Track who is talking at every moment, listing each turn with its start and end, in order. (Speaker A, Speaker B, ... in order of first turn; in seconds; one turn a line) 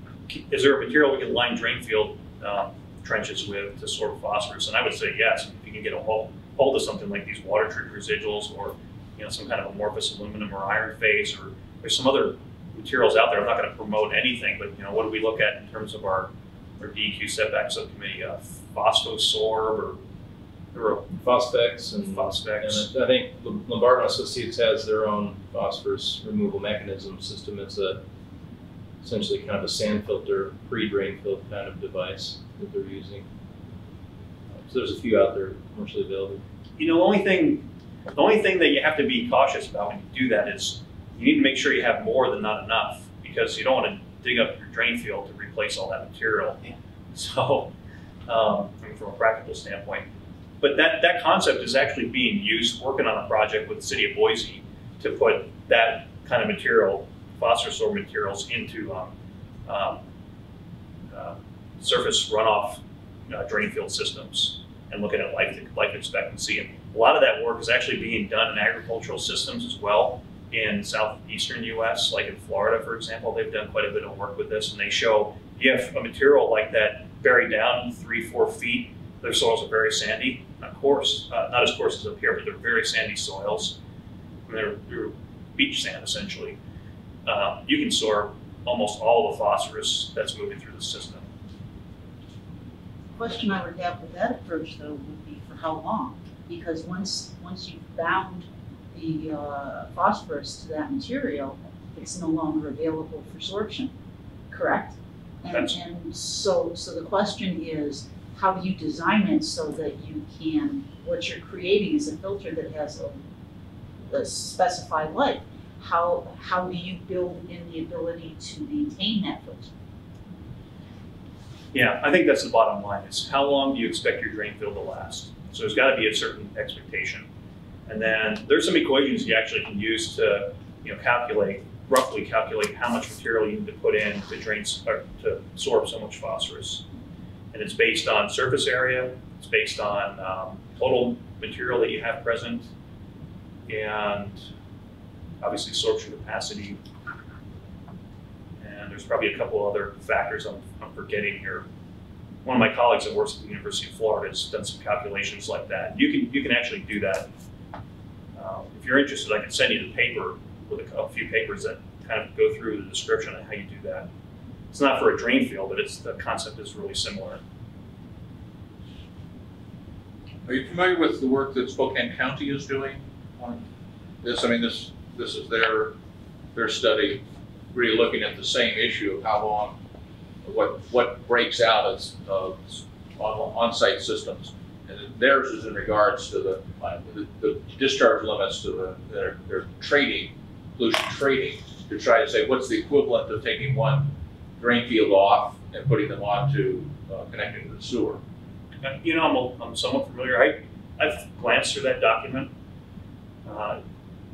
Speaker A: 0.3-20.0
Speaker A: 20.7-21.0
Speaker B: 21.1-28.0
Speaker A: 22.1-22.9
Speaker B: 29.0-33.2
Speaker B: 34.6-36.4
Speaker A: 36.8-47.7
Speaker A: 48.3-50.1
Speaker A: 50.6-59.1
Speaker A: 59.7-60.0
Speaker A: 61.1-83.8
Speaker A: 84.5-86.6
Speaker A: 87.2-91.2
Speaker C: 93.2-103.9
Speaker C: 104.5-113.2
Speaker A: 105.5-105.8
Speaker C: 114.1-119.7
Speaker A: 121.7-127.3
Speaker A: 127.9-136.8
Speaker A: 137.5-142.7
Speaker A: 143.7-144.4
Speaker A: 145.4-146.8
Speaker A: 148.6-151.7
Speaker A: 152.4-157.3
Speaker A: 158.3-164.1
Speaker A: 164.7-167.4
Speaker D: 170.4-173.7
Speaker D: 174.2-175.9
Speaker D: 176.5-179.8
Speaker D: 180.4-198.2
Speaker A: 198.8-202.5
Speaker A: 203.4-203.8